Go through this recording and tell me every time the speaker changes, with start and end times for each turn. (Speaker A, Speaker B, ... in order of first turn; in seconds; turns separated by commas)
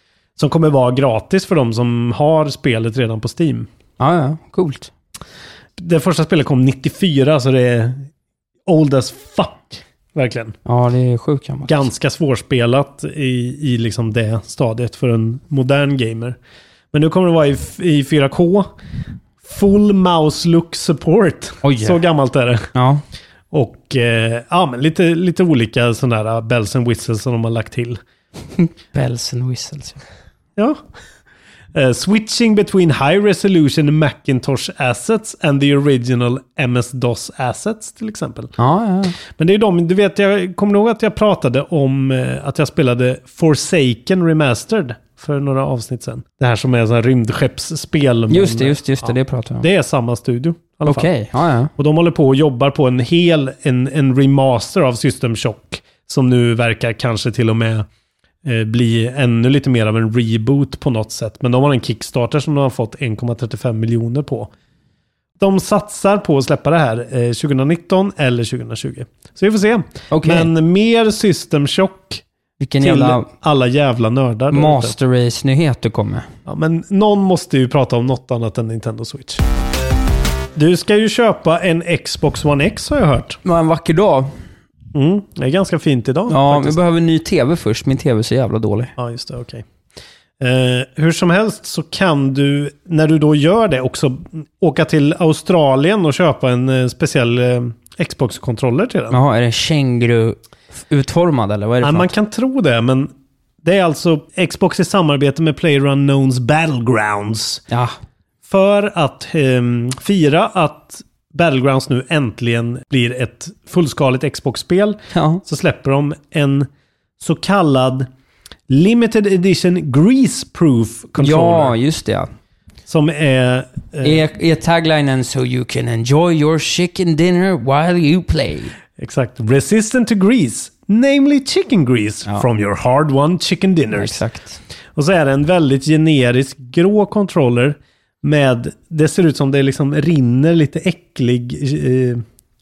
Speaker A: 0.4-3.7, Speaker B: 4.0-4.9, Speaker A: 5.8-8.1, Speaker A: 8.7-10.6, Speaker B: 10.7-11.9, Speaker A: 11.7-16.4, Speaker A: 16.9-18.7, Speaker A: 19.4-22.7, Speaker B: 21.6-22.0, Speaker B: 22.7-23.0, Speaker A: 23.5-28.0, Speaker B: 28.6-30.0, Speaker A: 30.6-30.8, Speaker A: 31.7-38.5, Speaker B: 38.6-39.2, Speaker A: 39.3-51.1, Speaker B: 48.3-49.7, Speaker B: 50.9-51.7, Speaker A: 51.8-57.9, Speaker A: 58.4-64.5, Speaker A: 65.4-72.2, Speaker B: 70.1-70.5, Speaker B: 72.6-73.3, Speaker A: 72.8-75.0, Speaker B: 74.5-76.3, Speaker A: 76.5-79.4, Speaker A: 80.5-83.4, Speaker B: 83.4-84.3, Speaker A: 84.9-86.8, Speaker B: 86.3-88.9, Speaker A: 89.0-89.7, Speaker A: 90.4-99.2, Speaker B: 99.1-102.1, Speaker A: 101.8-107.6, Speaker A: 108.5-116.7, Speaker B: 115.1-115.4, Speaker A: 117.2-118.1, Speaker A: 118.7-121.8, Speaker B: 121.2-122.3, Speaker A: 122.9-124.3, Speaker B: 124.0-128.7, Speaker A: 129.0-134.2, Speaker B: 133.9-134.6, Speaker A: 134.9-142.2